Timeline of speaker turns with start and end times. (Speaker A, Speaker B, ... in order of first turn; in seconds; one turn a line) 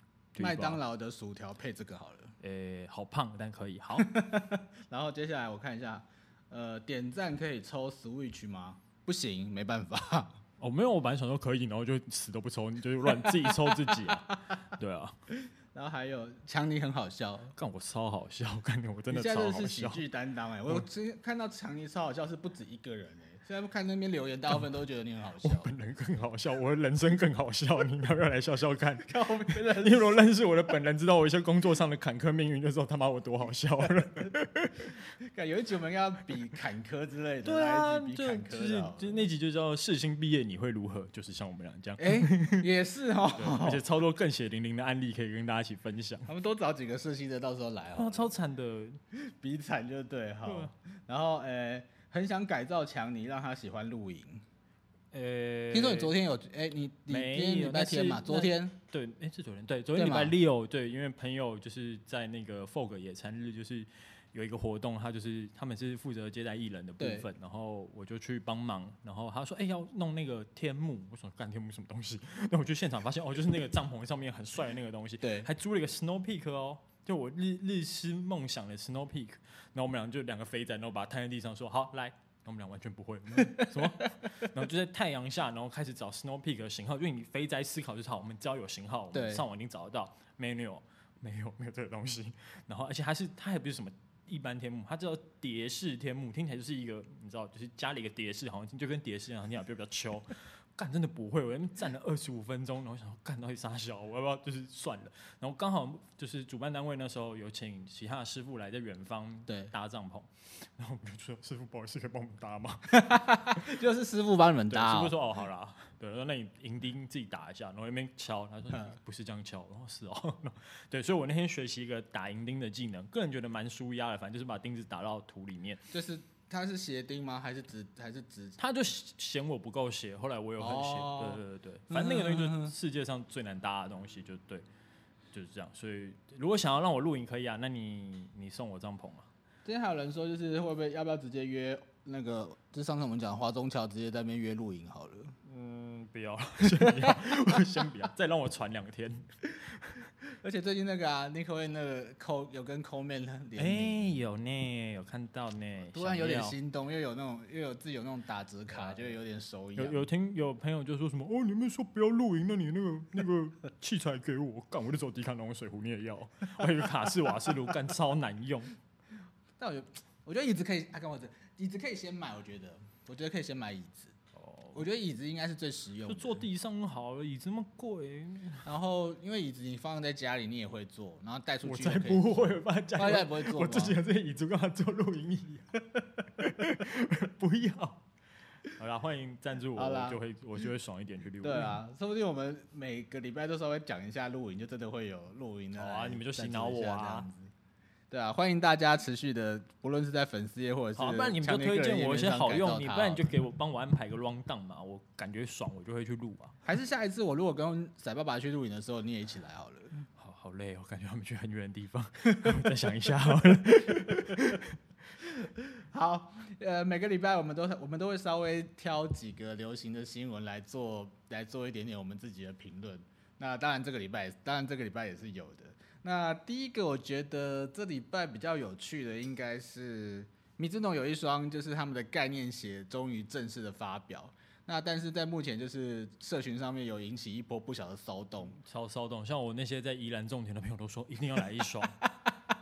Speaker A: 0.3-0.8
Speaker B: 0.4-2.4
Speaker A: 2.4-4.1
Speaker B: 4.0-10.4
Speaker A: 10.6-15.2
Speaker B: 13.0-14.4
Speaker B: 15.3-17.5
Speaker A: 17.5-20.0
Speaker B: 19.1-25.7
Speaker A: 25.4-35.0
Speaker B: 29.1-30.2
Speaker B: 35.2-39.2
Speaker A: 37.5-42.7
Speaker B: 42.0-43.8
Speaker A: 43.3-46.3
Speaker B: 46.3-48.3
Speaker A: 48.0-49.0
Speaker B: 49.1-54.4
Speaker A: 50.5-50.7
Speaker A: 55.1-56.1
Speaker B: 55.7-58.8
Speaker A: 57.1-113.0
Speaker B: 60.0-60.4
Speaker B: 67.0-67.3
Speaker B: 75.2-75.5
Speaker B: 83.4-84.1
Speaker B: 89.1-89.5
Speaker B: 109.5-109.7
Speaker B: 112.9-115.2
Speaker A: 114.7-125.8
Speaker B: 125.9-128.6
Speaker A: 128.6-134.7
Speaker B: 130.6-132.8
Speaker A: 135.3-139.3
Speaker B: 139.7-145.3
Speaker A: 145.4-150.1
Speaker B: 146.6-147.6
Speaker B: 150.2-154.2
Speaker A: 153.6-156.6
Speaker B: 155.9-160.1
Speaker A: 159.8-168.8
Speaker B: 169.6-174.2
Speaker A: 174.4-174.9
Speaker B: 174.7-176.4
Speaker A: 176.1-178.7
Speaker B: 178.7-184.0
Speaker A: 181.7-185.7
Speaker A: 186.4-188.0
Speaker A: 188.7-191.8
Speaker B: 189.8-190.2
Speaker B: 191.4-197.5
Speaker A: 195.8-197.3
Speaker B: 198.1-203.2
Speaker A: 201.0-206.6
Speaker B: 206.7-209.9
Speaker A: 210.1-214.7
Speaker B: 212.4-212.7
Speaker B: 213.9-214.4
Speaker B: 215.2-238.6
Speaker A: 238.6-242.0